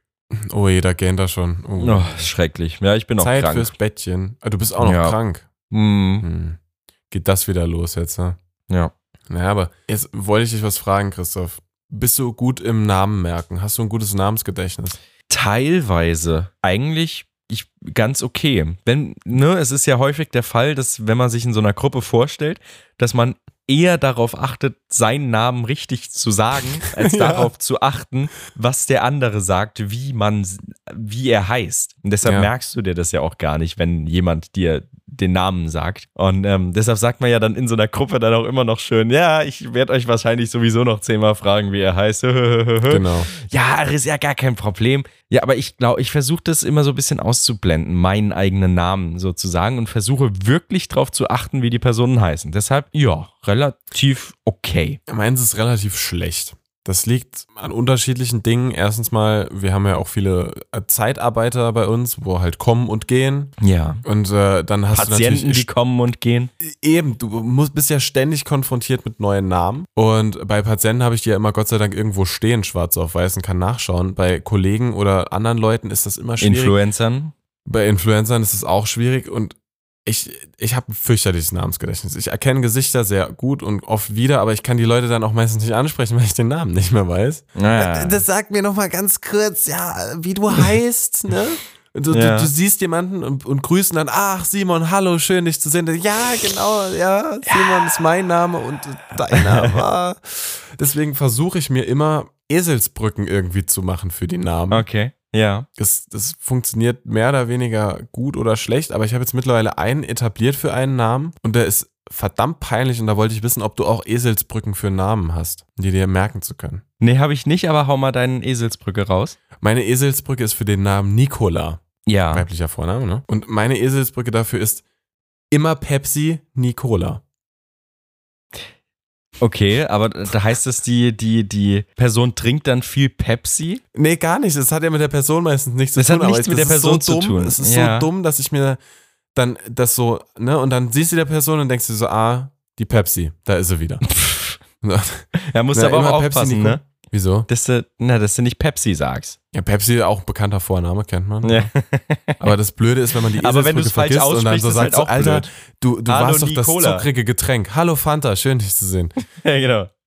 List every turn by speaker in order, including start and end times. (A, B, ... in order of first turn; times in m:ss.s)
0:00.3-0:02.3 A
0:01.8-0:03.7 B
0:03.2-0:05.5 A
0:04.8-0:05.2 B
0:05.7-0:06.3 B
0:06.2-0:06.6 A
0:07.1-0:08.4 A
0:09.3-0:15.0 A
0:15.3-0:55.0 B
0:27.0-0:27.5 A
0:32.2-0:32.5 A
0:42.9-0:43.3 A
0:55.1-1:05.7 A
1:03.6-1:04.0 B
1:04.9-1:06.5 B
1:06.6-1:16.8 A
1:16.4-1:17.3 B
1:17.7-1:44.9 A
1:27.6-1:28.2 B
1:32.1-1:32.5 B
1:37.5-1:37.7 B
1:39.3-1:39.8 B
1:44.7-1:45.7 B
1:45.8-1:56.8 A
1:57.0-1:59.4 B
1:59.6-2:04.8 A
2:02.1-2:02.5 B
2:05.5-2:07.2 A
2:09.4-2:13.8 B
2:13.9-2:18.8 A
2:16.0-2:18.1 B
2:19.4-2:24.0 A
2:24.1-2:24.6 B
2:24.8-2:27.5 A
2:25.4-2:26.8 B
2:27.5-2:29.4 B
2:29.5-2:31.7 A
2:31.4-2:32.5 B
2:32.4-2:39.1 A
2:33.4-2:35.5 B
2:36.1-2:37.1 B
2:39.4-2:39.9 B